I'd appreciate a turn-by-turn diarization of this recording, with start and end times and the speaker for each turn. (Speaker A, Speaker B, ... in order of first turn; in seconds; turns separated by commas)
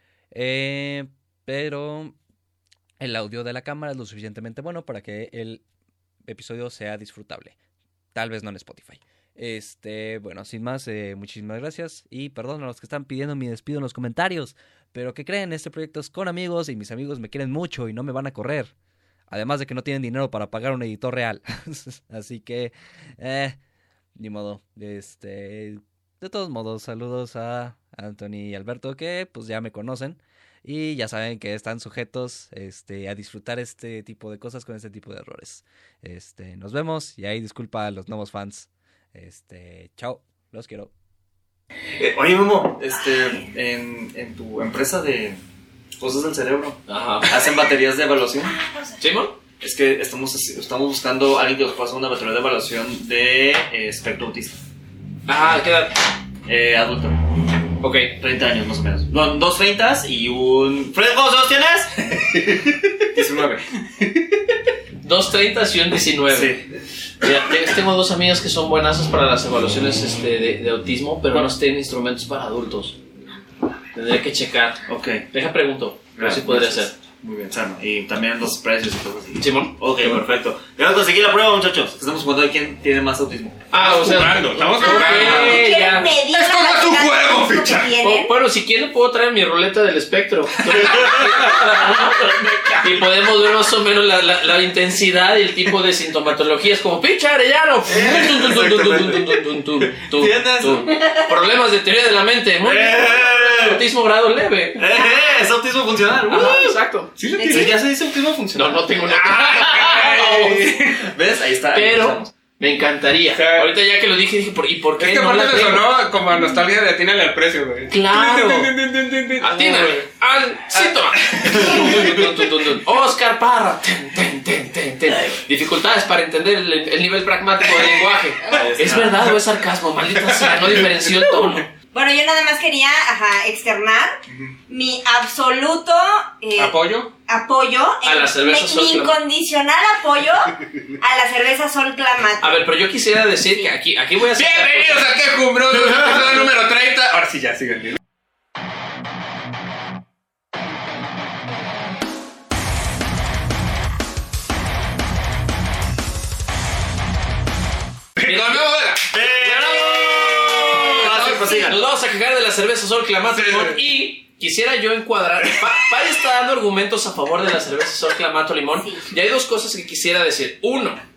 Speaker A: 0.3-2.1, Speaker A: 3.0-5.6, Speaker A: 6.2-7.6, Speaker A: 8.1-18.7, Speaker A: 19.3-23.6, Speaker A: 24.2-40.9, Speaker B: 42.0-45.4, Speaker B: 46.0-48.5, Speaker C: 46.9-47.6, Speaker C: 49.0-49.4, Speaker B: 49.6-54.6, Speaker C: 55.3-56.0, Speaker B: 56.5-57.2, Speaker C: 57.8-58.1, Speaker B: 58.2-63.7, Speaker C: 65.0-66.5, Speaker B: 66.3-66.6, Speaker C: 67.2-73.0, Speaker C: 73.9-76.9, Speaker B: 74.9-75.2, Speaker B: 76.2-83.7, Speaker C: 79.4-79.8, Speaker C: 83.7-86.1, Speaker D: 83.8-88.0, Speaker E: 84.8-88.3, Speaker C: 88.0-104.8, Speaker D: 90.7-91.4, Speaker B: 90.8-93.0, Speaker B: 97.9-99.4, Speaker B: 100.0-101.3, Speaker B: 102.6-103.8, Speaker B: 104.8-106.7, Speaker C: 106.3-107.1, Speaker D: 107.2-107.8, Speaker E: 107.4-107.7, Speaker B: 107.4-108.9, Speaker C: 108.5-110.0, Speaker D: 109.1-111.1, Speaker B: 109.7-112.3, Speaker C: 111.7-116.0, Speaker D: 113.3-113.7, Speaker D: 115.0-120.1, Speaker C: 117.9-118.7, Speaker C: 119.4-131.7, Speaker D: 121.2-121.5, Speaker B: 128.5-129.3, Speaker D: 130.2-131.3, Speaker E: 131.9-142.7, Speaker D: 134.3-134.5, Speaker D: 136.6-137.1, Speaker C: 138.0-139.1, Speaker C: 142.4-145.1, Speaker E: 143.4-143.7, Speaker D: 144.3-148.0, Speaker D: 158.2-159.1, Speaker C: 158.2-158.7, Speaker B: 159.0-161.8, Speaker C: 159.4-171.0, Speaker E: 161.3-161.7, Speaker D: 163.3-163.6